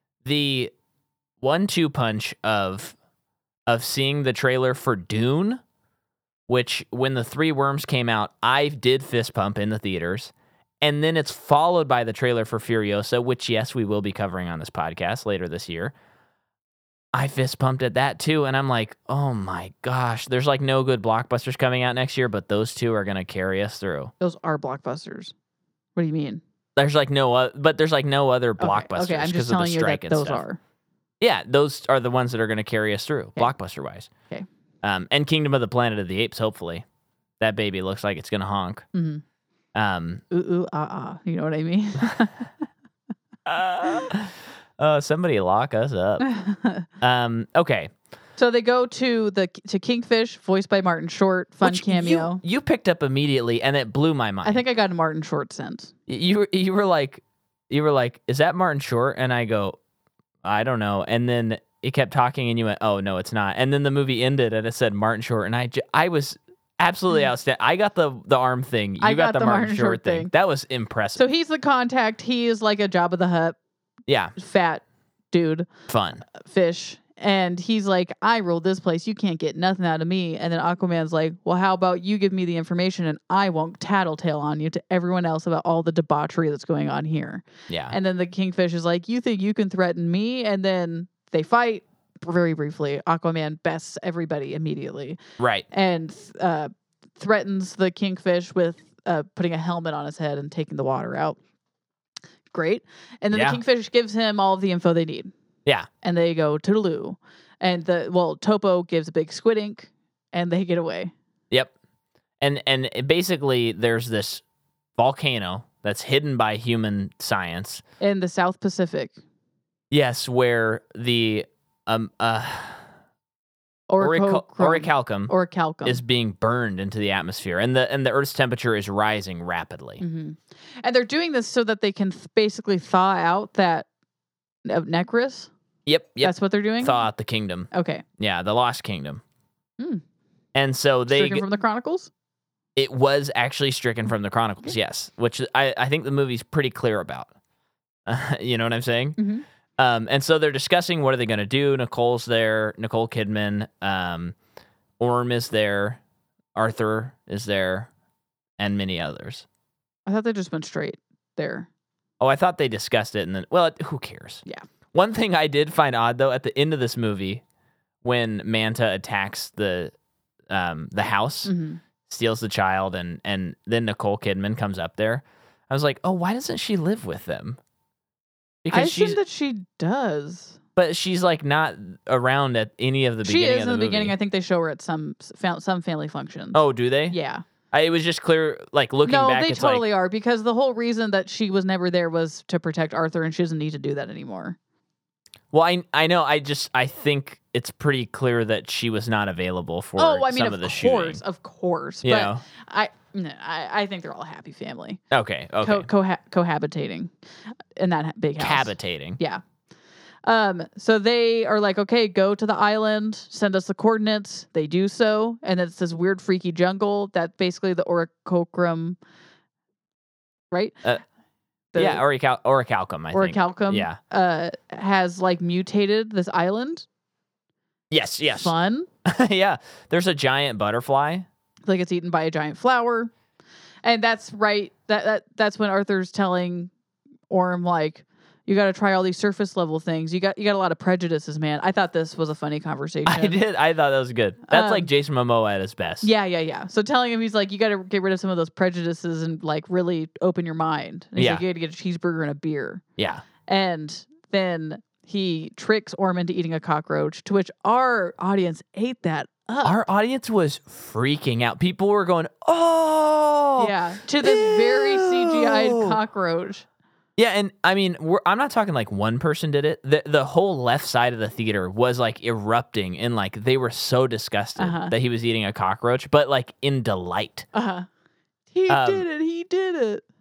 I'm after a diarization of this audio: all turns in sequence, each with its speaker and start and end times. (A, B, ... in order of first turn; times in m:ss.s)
0:00.2-0:00.7 A
0:01.4-0:03.0 A
0:03.7-0:05.6 A
0:06.5-0:15.9 A
0:17.1-0:24.1 A
0:24.2-0:25.3 B
0:26.0-0:26.4 B
0:26.8-0:30.4 A
0:28.6-0:30.6 B
0:31.2-0:34.1 A
0:34.8-0:36.8 A
0:37.4-0:38.9 A
0:38.9-0:39.2 B
0:39.8-0:40.2 A
0:40.3-0:42.5 B
0:43.5-0:46.3 A
0:46.2-0:46.9 B
0:47.0-0:47.9 A
0:48.4-0:52.4 B
0:51.6-0:54.6 A
0:54.4-0:55.9 B
0:56.1-0:59.8 A
1:00.4-1:11.2 A
1:09.0-1:10.3 B
1:11.2-1:13.6 B
1:14.1-1:14.3 A
1:14.4-1:15.7 B
1:15.9-1:16.2 A
1:16.3-1:41.4 B
1:27.7-1:27.9 A
1:35.4-1:35.7 A
1:42.5-1:45.3 B
1:43.3-1:43.6 A
1:46.0-1:51.1 B
1:52.4-1:54.4 A
1:55.0-1:57.8 A
1:58.0-1:59.2 B
1:59.9-2:02.8 A
2:03.9-2:06.0 B
2:04.0-2:05.3 A
2:05.8-2:10.0 A
2:10.0-2:13.9 B
2:14.7-2:15.5 B
2:15.9-2:19.2 A
2:16.2-2:17.1 B
2:17.7-2:18.0 B
2:20.6-2:21.4 A
2:21.1-2:22.1 B
2:22.8-2:27.3 A
2:28.1-2:29.2 A
2:29.2-2:29.4 B
2:29.8-2:34.4 A
2:35.0-2:36.0 A
2:36.6-2:37.9 A
2:38.6-2:39.4 A
2:40.1-2:41.7 B
2:42.2-2:47.4 A
2:48.0-2:49.9 A
2:50.5-2:51.5 A
2:51.4-2:51.8 B
2:52.1-2:57.6 A
2:58.6-2:59.2 A
2:58.7-3:00.6 B
3:00.8-3:04.1 A
3:03.2-3:06.6 B
3:06.5-3:07.2 A
3:07.1-3:07.4 B
3:07.7-3:09.8 A
3:09.0-3:14.6 B
3:15.5-3:21.2 A
3:20.0-3:25.0 B
3:22.0-3:22.4 A
3:25.1-3:25.9 A
3:25.6-3:27.1 B
3:27.8-3:29.4 B
3:28.4-3:29.2 A
3:30.3-3:39.0 B
3:40.5-3:40.8 B
3:41.7-3:42.0 B
3:41.8-3:44.0 A
3:43.1-3:46.9 B
3:47.9-3:48.5 A
3:48.3-3:48.9 B
3:49.0-3:51.3 A
3:51.7-3:53.1 B
3:53.8-3:56.7 B
3:57.3-4:03.4 B
4:03.1-4:06.1 A
4:04.5-4:04.9 B
4:06.0-4:12.8 B
4:11.2-4:11.4 A
4:13.0-4:13.2 A
4:13.5-4:19.8 B
4:19.6-4:26.0 A
4:23.6-4:26.7 B
4:27.2-4:37.5 A
4:34.6-4:34.9 B
4:37.5-4:37.9 B
4:38.5-4:40.0 B
4:38.7-4:39.0 A